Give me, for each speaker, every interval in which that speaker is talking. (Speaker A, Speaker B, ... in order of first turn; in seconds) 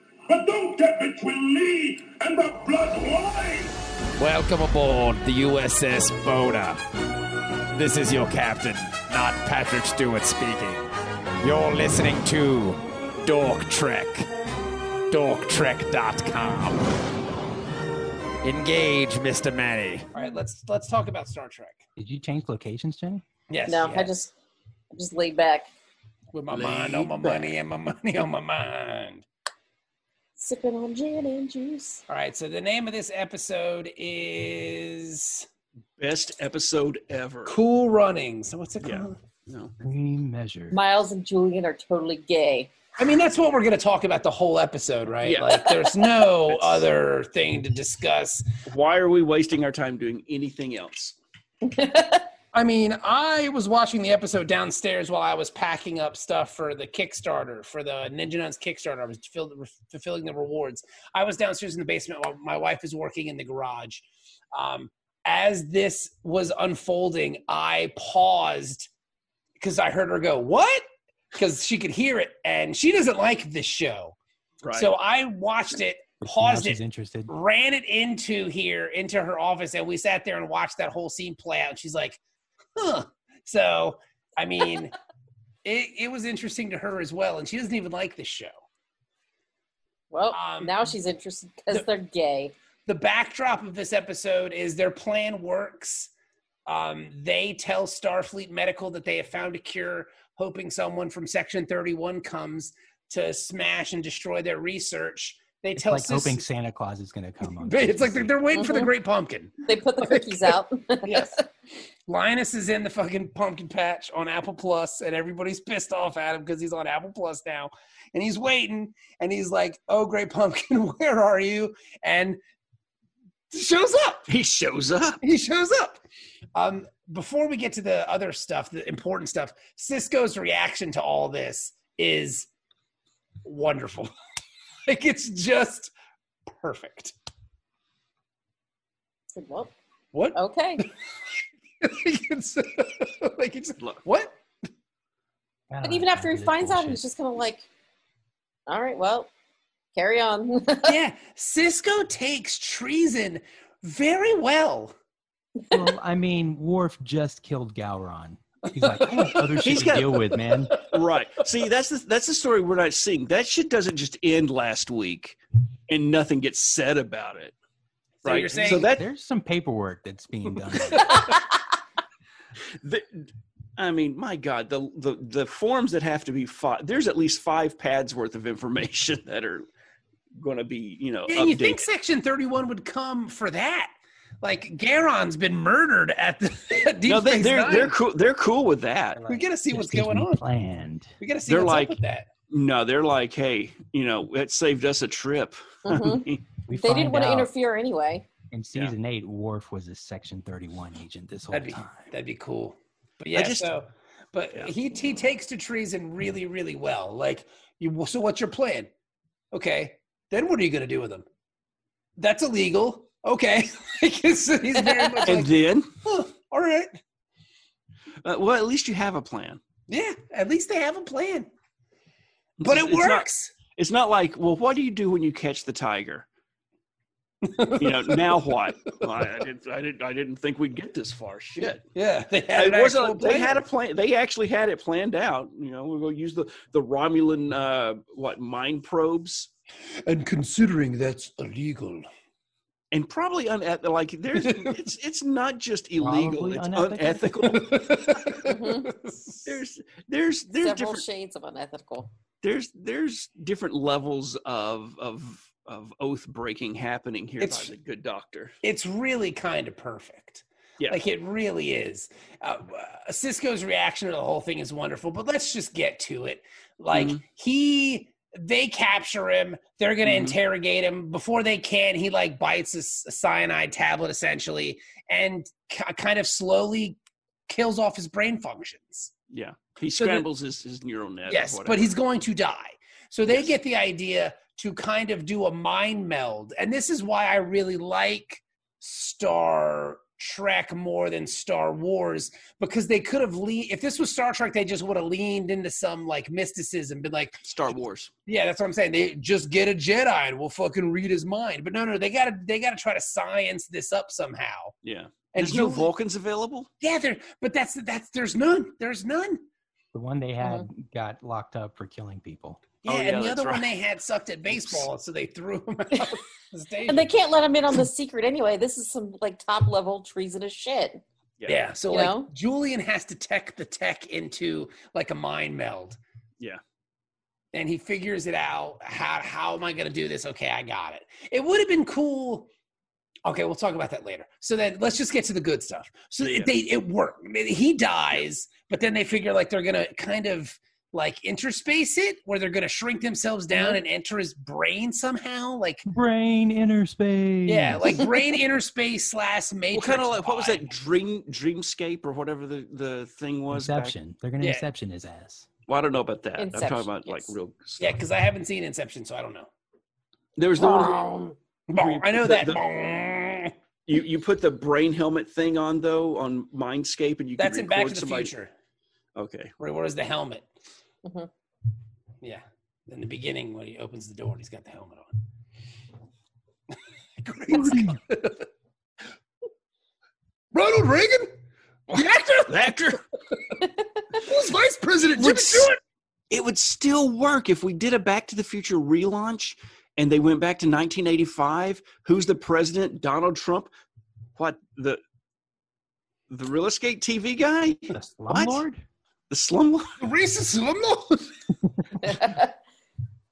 Speaker A: 0.3-3.7
Speaker B: 4.2-6.8, 7.7-10.9, 11.4-14.3, 15.1-16.8, 18.4-20.1
Speaker C: 20.1-21.8, 23.5-24.1, 26.3-29.2, 32.1-35.5, 37.5-39.2, 43.0-48.5, 52.5-68.9, 69.6-74.2, 74.7-82.2, 82.8-84.9, 85.6-88.6, 90.3-90.9, 92.9-96.1, 96.7-106.4, 107.5-111.4, 112.1-122.4, 123.5-124.3, 125.2-126.0, 126.5-132.5, 133.4-134.1, 134.9-135.9, 136.5-137.1, 140.1-140.9, 141.8-144.4, 150.8-154.9, 158.8-160.8, 168.2-168.9, 170.9-171.2, 181.3-187.9, 189.3-190.4, 191.2-192.3, 201.5-208.9, 209.5-211.3, 212.2-216.9, 219.9-221.5, 222.6-223.5, 227.4-228.4, 231.6-233.6, 240.1-242.1, 244.4-244.8, 247.4-249.6, 257.4-257.7, 258.6-279.1, 280.0-280.2, 281.3-297.5, 298.3-304.8, 305.3-305.9, 306.8-309.4, 312.9-317.2, 321.5-326.0, 327.5-332.5, 333.2-345.9, 347.5-350.6, 357.8-359.5, 361.7-363.5, 367.4-368.5, 369.6-370.5, 372.2-375.2, 377.2-378.5, 380.5-381.4, 381.9-382.7, 383.5-385.8, 400.0-401.4
Speaker D: 22.0-23.2, 39.8-40.8, 76.2-77.3, 105.8-108.4, 145.7-147.0, 155.7-160.8, 168.5-171.3, 189.2-191.1, 196.7-197.5, 198.5-202.1, 246.0-247.5, 309.9-312.6, 345.9-348.1, 353.5-355.5, 377.6-377.9, 397.9-398.8, 401.8-402.4
Speaker E: 23.7-24.3, 24.9-25.7, 30.4-32.0, 40.7-42.7, 51.6-52.3, 90.1-92.5, 108.5-108.9, 109.7-111.4, 139.3-139.7, 140.3-140.8, 145.8-147.7, 148.7-149.3, 149.9-151.0, 195.8-198.3, 248.4-248.9, 250.6-252.1, 316.9-321.0, 321.9-322.3, 343.6-343.8, 356.4-357.3, 360.6-361.4, 371.0-371.3, 402.0-402.4
Speaker F: 26.5-27.3, 36.0-37.6, 38.8-39.7, 45.2-45.9, 46.5-46.9, 48.7-51.2, 74.6-74.9, 124.3-125.2, 159.6-165.4, 165.9-167.6, 168.2-169.1, 172.8-179.7, 180.4-181.9, 187.1-189.2, 191.5-192.0, 192.5-196.4, 203.3-203.7, 215.2-215.9, 218.2-219.6, 222.6-226.3, 227.8-231.8, 232.5-239.5, 242.9-248.4, 249.4-251.0, 252.4-258.6, 266.9-267.2, 270.0-270.4, 279.3-281.9, 297.5-298.1, 304.8-306.7, 312.9-313.7, 314.5-314.9, 336.2-336.5, 349.7-354.0, 355.7-358.0, 360.4-361.1, 361.8-362.6, 363.9-368.3, 369.1-369.5, 382.5-383.0, 385.1-385.7, 386.3-393.7, 394.4-395.0, 396.3-398.6, 399.3-399.9